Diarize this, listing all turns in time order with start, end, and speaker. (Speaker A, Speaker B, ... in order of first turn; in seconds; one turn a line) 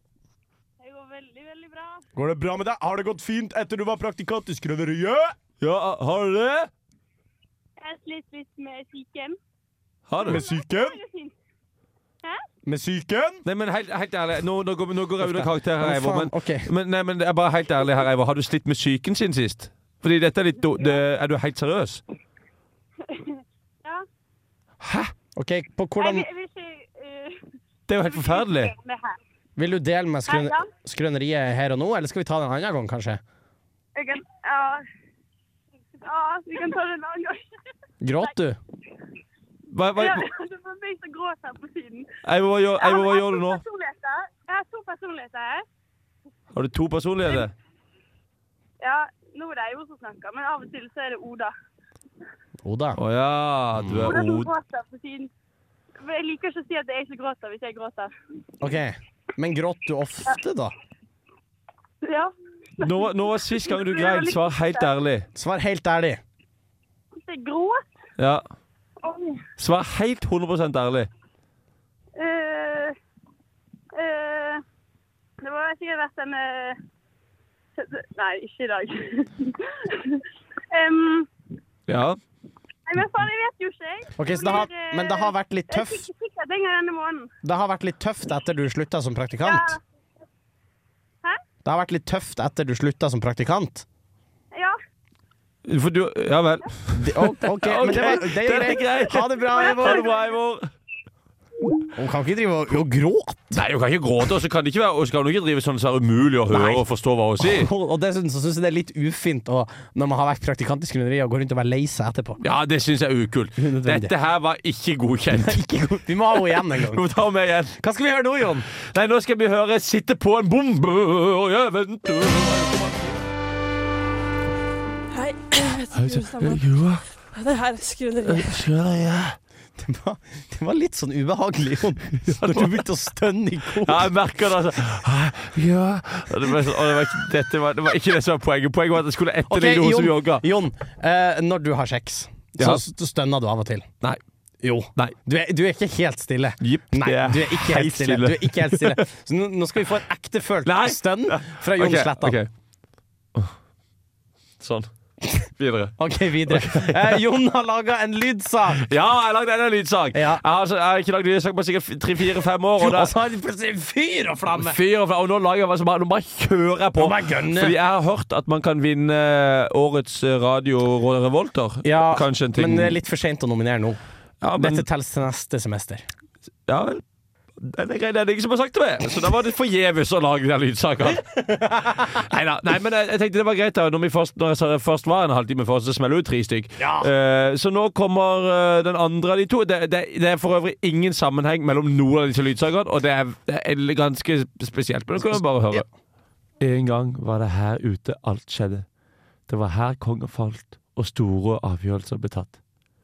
Speaker A: 0.8-2.0
Speaker B: 2.1-5.3
Speaker C: 5.6-6.7
Speaker A: 7.8-9.4
Speaker C: 10.1-10.4
Speaker B: 10.2-11.0
Speaker A: 10.2-11.3
Speaker B: 12.7-13.4
Speaker C: 13.4-22.0
Speaker B: 15.2-16.7
Speaker A: 23.0-24.1
Speaker C: 24.8-25.1
Speaker B: 25.4-26.3
Speaker A: 26.0-29.2
Speaker C: 27.9-28.7
Speaker B: 29.6-33.2
Speaker A: 30.3-30.7
Speaker A: 34.0-34.8
Speaker A: 36.0-37.5
Speaker B: 38.0-38.6
Speaker C: 39.7-40.2
Speaker A: 40.0-42.1
Speaker C: 42.2-43.6
Speaker A: 42.8-45.6
Speaker C: 46.5-47.5
Speaker A: 48.8-51.5
Speaker B: 52.6-53.0
Speaker C: 53.0-54.5
Speaker B: 53.8-54.1
Speaker A: 54.1-55.3
Speaker A: 56.0-58.1
Speaker B: 58.6-60.7
Speaker A: 62.0-64.9
Speaker C: 62.8-65.3
Speaker B: 65.3-66.2
Speaker A: 67.2-67.9
Speaker C: 68.2-68.4
Speaker A: 69.0-69.4
Speaker C: 69.6-71.1
Speaker A: 72.2-73.0
Speaker A: 73.9-74.6
Speaker A: 75.4-76.8
Speaker A: 77.8-81.3
Speaker C: 81.9-82.2
Speaker A: 82.9-87.3
Speaker B: 84.2-86.0
Speaker B: 87.4-89.7
Speaker A: 89.4-89.8
Speaker B: 91.6-93.8
Speaker A: 94.5-94.8
Speaker C: 95.7-100.7
Speaker B: 96.9-100.1
Speaker A: 99.5-100.3
Speaker B: 101.9-103.6
Speaker C: 103.5-107.7
Speaker B: 106.5-106.8
Speaker B: 107.4-112.4
Speaker C: 112.4-115.6
Speaker B: 113.6-114.1
Speaker B: 115.3-117.0
Speaker C: 116.5-117.8
Speaker B: 117.8-118.7
Speaker C: 118.8-123.2
Speaker D: 125.1-126.6
Speaker C: 125.9-127.0
Speaker D: 127.3-128.5
Speaker C: 128.2-129.4
Speaker B: 129.8-134.1
Speaker C: 132.2-132.8
Speaker C: 133.8-140.4
Speaker B: 139.5-143.9
Speaker C: 142.6-142.8
Speaker B: 144.6-152.4
Speaker C: 146.6-149.0
Speaker C: 150.6-152.5
Speaker C: 154.6-154.9
Speaker C: 155.5-157.2
Speaker B: 156.0-158.8
Speaker C: 158.8-163.1
Speaker B: 160.1-160.4
Speaker B: 162.8-164.8
Speaker C: 164.5-173.0
Speaker B: 167.0-167.8
Speaker B: 171.8-174.0
Speaker C: 174.4-174.8
Speaker B: 174.6-176.0
Speaker C: 176.7-177.0
Speaker C: 177.6-181.3
Speaker B: 181.3-182.0
Speaker C: 181.9-195.8
Speaker B: 186.8-187.1
Speaker B: 195.2-195.9
Speaker C: 196.6-198.8
Speaker C: 199.5-202.6